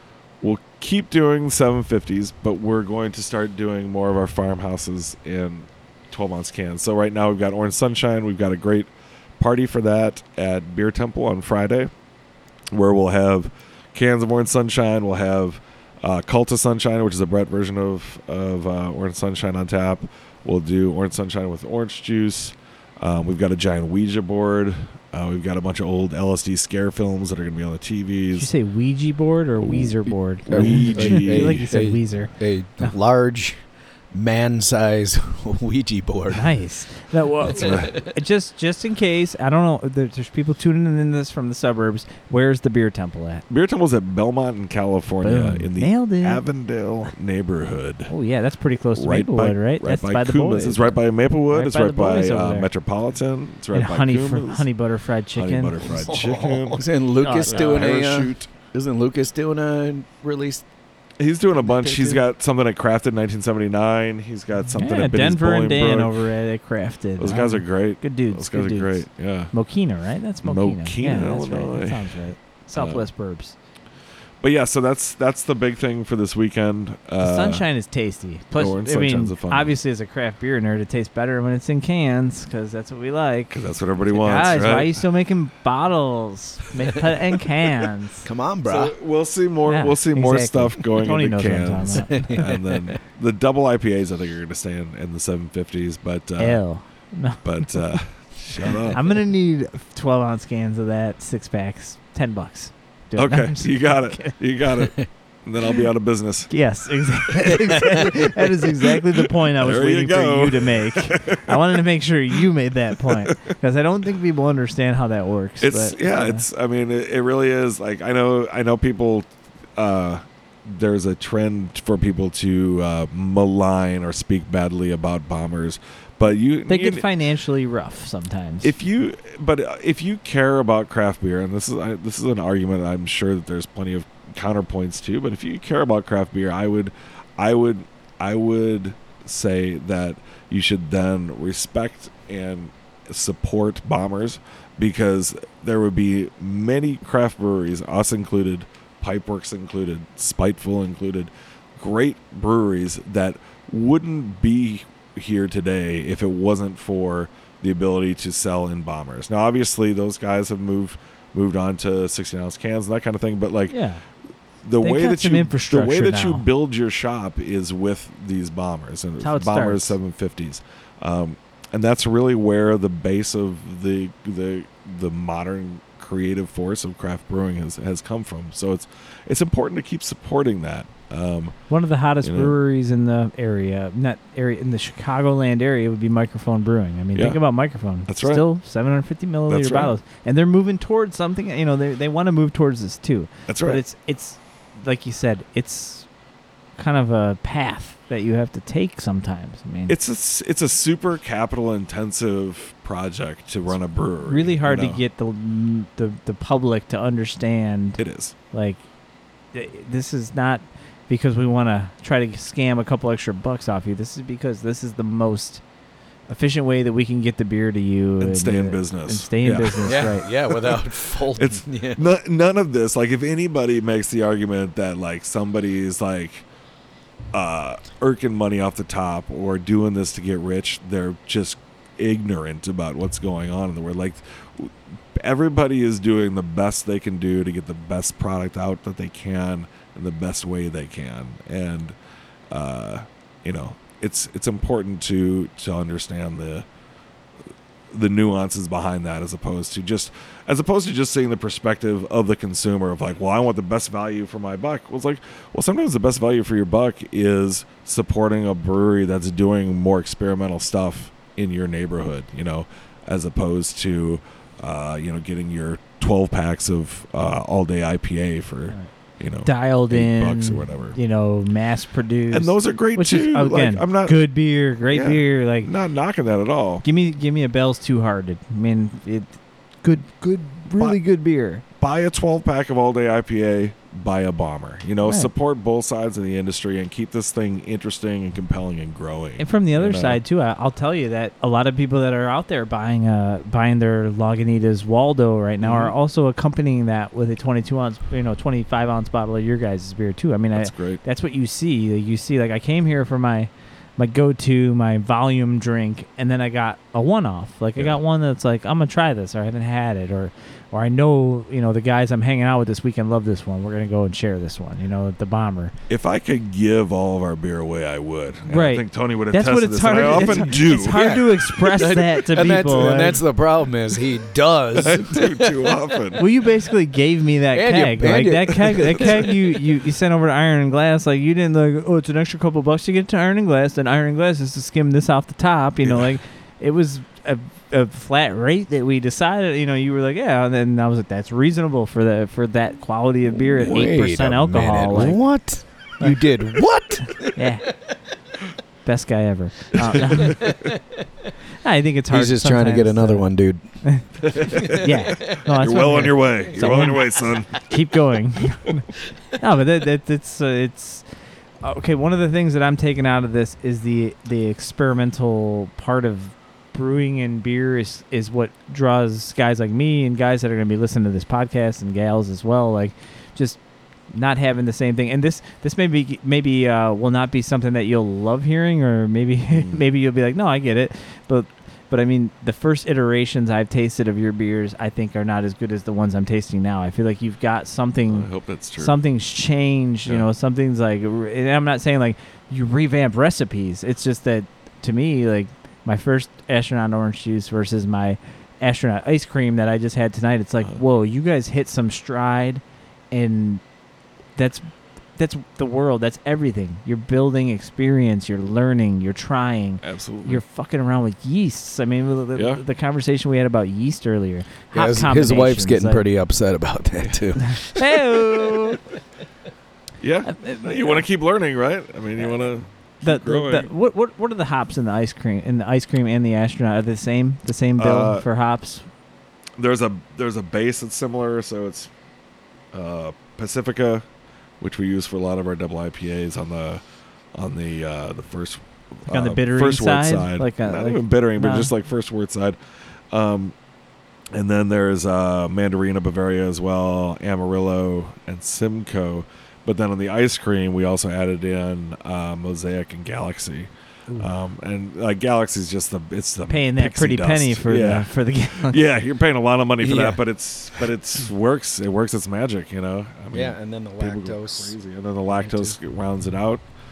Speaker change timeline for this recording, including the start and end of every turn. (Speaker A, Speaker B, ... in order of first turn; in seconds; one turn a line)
Speaker A: 0.4-11.9
Speaker A: 12.7-28.5
Speaker B: 28.3-32.9
Speaker A: 30.4-31.6
Speaker C: 30.4-36.6
Speaker B: 36.3-43.4
Speaker C: 37.6-37.9
Speaker A: 37.6-37.9
Speaker A: 43.5-48.1
Speaker B: 45.2-46.4
Speaker B: 48.1-51.0
Speaker A: 48.9-54.7
Speaker B: 51.5-52.7
Speaker B: 53.7-56.0
Speaker A: 55.4-56.8
Speaker C: 55.9-60.6
Speaker B: 57.2-57.9
Speaker A: 57.4-58.4
Speaker A: 61.2-66.1
Speaker C: 61.6-62.2
Speaker B: 64.8-73.5
Speaker A: 67.2-69.5
Speaker A: 70.4-72.1
Speaker A: 72.7-73.0
Speaker A: 74.4-77.6
Speaker B: 77.2-88.3
Speaker A: 78.5-79.7
Speaker A: 83.5-85.0
Speaker C: 88.2-88.9
Speaker A: 88.6-96.6
Speaker B: 89.7-92.4
Speaker C: 91.9-92.9
Speaker B: 96.4-98.0
Speaker A: 97.4-99.0
Speaker B: 98.9-104.3
Speaker A: 103.2-106.5
Speaker B: 106.5-116.4
Speaker C: 107.5-107.8
Speaker A: 109.6-111.6
Speaker A: 115.6-127.0
Speaker B: 126.7-128.7
Speaker A: 128.6-163.8
Speaker B: 163.7-164.0
Speaker A: 164.6-181.6
Speaker B: 164.8-166.4
Speaker B: 169.2-169.9
Speaker B: 181.7-196.1
Speaker A: 182.2-182.6
Speaker A: 187.1-187.4
Speaker A: 188.1-188.4
Speaker A: 189.5-189.9
Speaker A: 193.5-193.8
Speaker B: 196.8-199.9
Speaker A: 199.9-205.0
Speaker B: 204.2-208.0
Speaker A: 208.0-208.3
Speaker B: 208.5-208.8
Speaker B: 209.5-215.6
Speaker B: 216.3-220.3
Speaker A: 218.2-226.4
Speaker C: 219.8-222.0
Speaker A: 227.3-241.9
Speaker A: 242.5-246.7
Speaker A: 247.9-271.0
Speaker B: 269.4-275.7
Speaker A: 272.3-274.2
Speaker A: 274.9-276.8
Speaker B: 276.8-281.6
Speaker A: 281.8-290.2
Speaker B: 285.0-285.3
Speaker B: 289.4-315.7
Speaker A: 295.6-295.9
Speaker A: 300.5-301.0
Speaker A: 315.9-321.2
Speaker B: 318.5-323.2
Speaker C: 320.2-326.2
Speaker A: 324.7-326.2
Speaker B: 326.2-345.2
Speaker C: 327.5-329.4
Speaker A: 335.8-336.1
Speaker C: 343.3-347.3
Speaker B: 347.2-347.7
Speaker B: 348.8-350.5
Speaker A: 349.9-350.5
Speaker C: 350.2-350.8
Speaker B: 351.6-353.3
Speaker C: 352.1-353.6
Speaker B: 353.8-361.1
Speaker A: 354.2-357.6
Speaker C: 354.5-354.9
Speaker C: 356.6-356.9
Speaker B: 361.6-373.6
Speaker B: 374.1-403.6
Speaker A: 379.5-379.8
Speaker A: 388.1-389.0
Speaker B: 404.4-416.0
Speaker A: 409.8-410.4
Speaker A: 412.3-412.6
Speaker C: 414.7-418.1
Speaker B: 417.4-418.8
Speaker A: 420.0-423.7
Speaker B: 420.2-421.0
Speaker B: 423.0-428.9
Speaker A: 427.8-428.2
Speaker A: 429.6-431.9
Speaker A: 432.7-434.0
Speaker A: 434.6-436.8
Speaker A: 437.3-442.6
Speaker B: 439.1-441.7
Speaker A: 443.1-443.5
Speaker A: 444.3-466.6
Speaker B: 456.5-458.8
Speaker C: 459.8-460.2
Speaker C: 463.3-464.7
Speaker C: 465.3-465.8